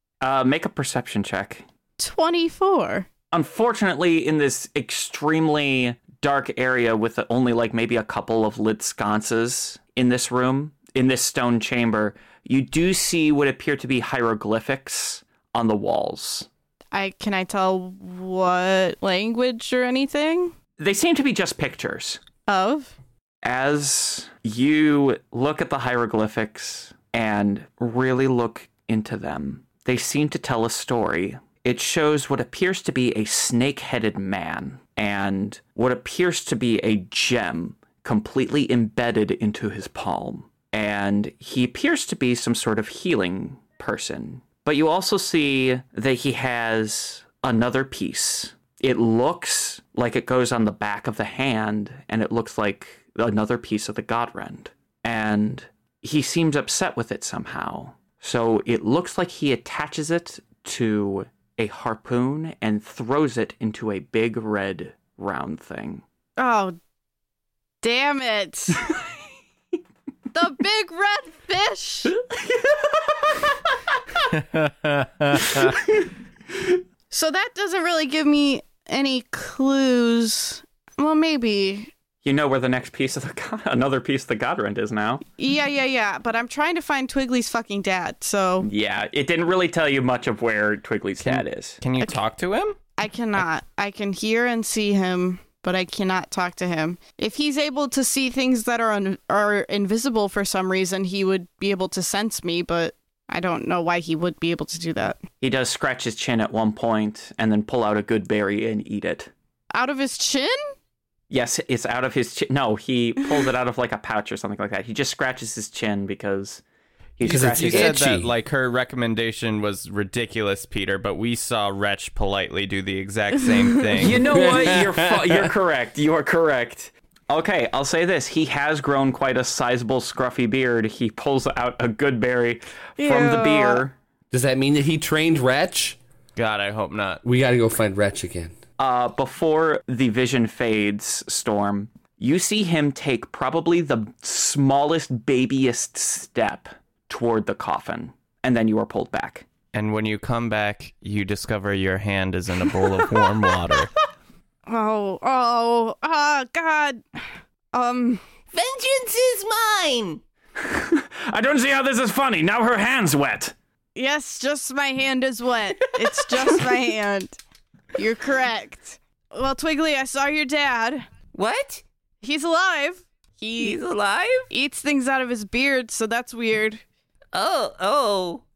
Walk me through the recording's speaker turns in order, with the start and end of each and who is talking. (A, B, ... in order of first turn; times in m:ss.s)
0:00.2-0:01.6 A
0:02.0-0:03.1 B
0:03.3-0:16.5 A
0:16.9-0:20.5 B
0:20.8-0:22.2 A
0:22.5-0:23.0 B
0:23.4-1:06.0 A
1:06.4-1:06.8 B
1:07.8-1:08.9 B
1:10.3-1:12.1 B
1:12.6-1:13.4 A
1:14.4-1:15.6 C
1:17.1-1:21.9 B
1:22.2-1:25.2 A
1:25.4-1:28.7 B
1:28.6-1:31.8 A
1:31.2-1:32.8 C
1:33.0-1:45.2 B
1:45.4-1:49.3 A
1:49.7-1:50.6 B
1:51.3-1:56.6 A
1:57.2-1:58.0 A
1:57.2-1:58.4 D
1:57.3-2:04.3 C
2:04.0-2:14.0 A
2:04.2-2:05.5 D
2:13.0-2:13.8 B
2:14.3-2:16.0 D
2:16.4-2:17.2 C
2:17.2-2:18.6 D
2:18.8-2:29.5 A
2:29.7-2:33.9 C
2:34.7-2:37.0 B
2:37.7-2:38.2 B
2:38.5-2:40.2 E
2:40.6-2:43.5 A
2:44.0-2:47.4 B
2:48.0-2:51.0 B
2:51.4-2:51.8 E
2:52.2-2:53.8 B
2:53.6-2:54.5 E
2:54.5-2:56.8 B
2:57.3-2:58.4 E